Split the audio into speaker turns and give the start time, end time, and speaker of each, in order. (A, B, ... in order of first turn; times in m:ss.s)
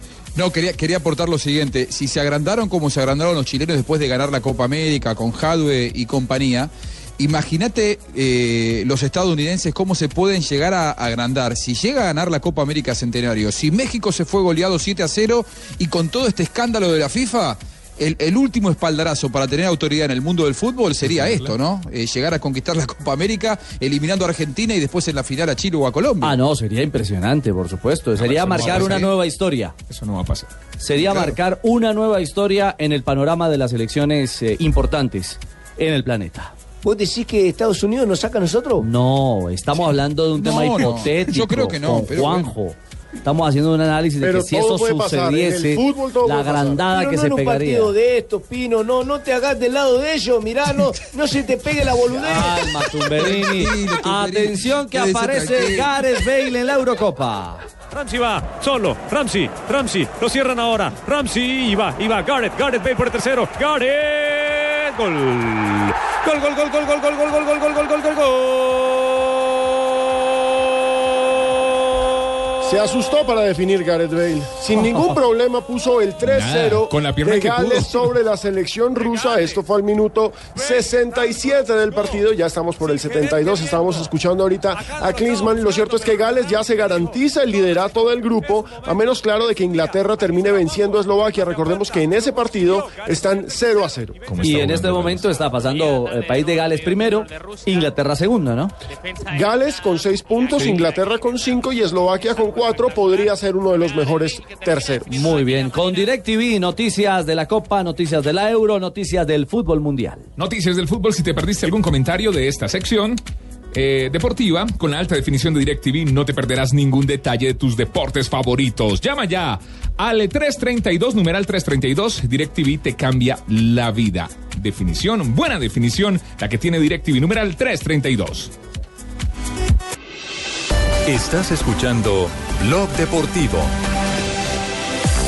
0:00.3-0:26.4 A
0:21.0-0:21.5 B
0:26.2-0:29.7 C
0:28.2-0:29.2 B
0:29.9-0:30.5 B
0:30.8-0:36.5 C
0:31.1-0:31.3 B
0:36.8-0:38.9 D
0:38.8-0:47.9 C
0:40.4-0:42.5 A
0:44.2-0:46.8 E
0:46.9-0:52.6 D
0:52.1-0:57.6 C
0:53.1-0:55.9 A
0:57.9-1:09.3 F
1:12.6-1:34.2 E
1:16.2-1:18.1 B
1:19.0-1:19.6 F
1:20.6-1:22.2 F
1:22.8-1:24.1 F
1:24.7-1:27.2 F
1:28.4-1:29.2 F
1:29.7-1:30.7 F
1:31.3-1:33.9 F
1:34.3-1:35.2 B
1:34.4-1:38.7 C
1:39.3-1:45.2 E
1:45.1-1:50.2 C
1:50.4-1:53.2 B
1:53.7-2:08.5 B
2:11.0-2:13.7 G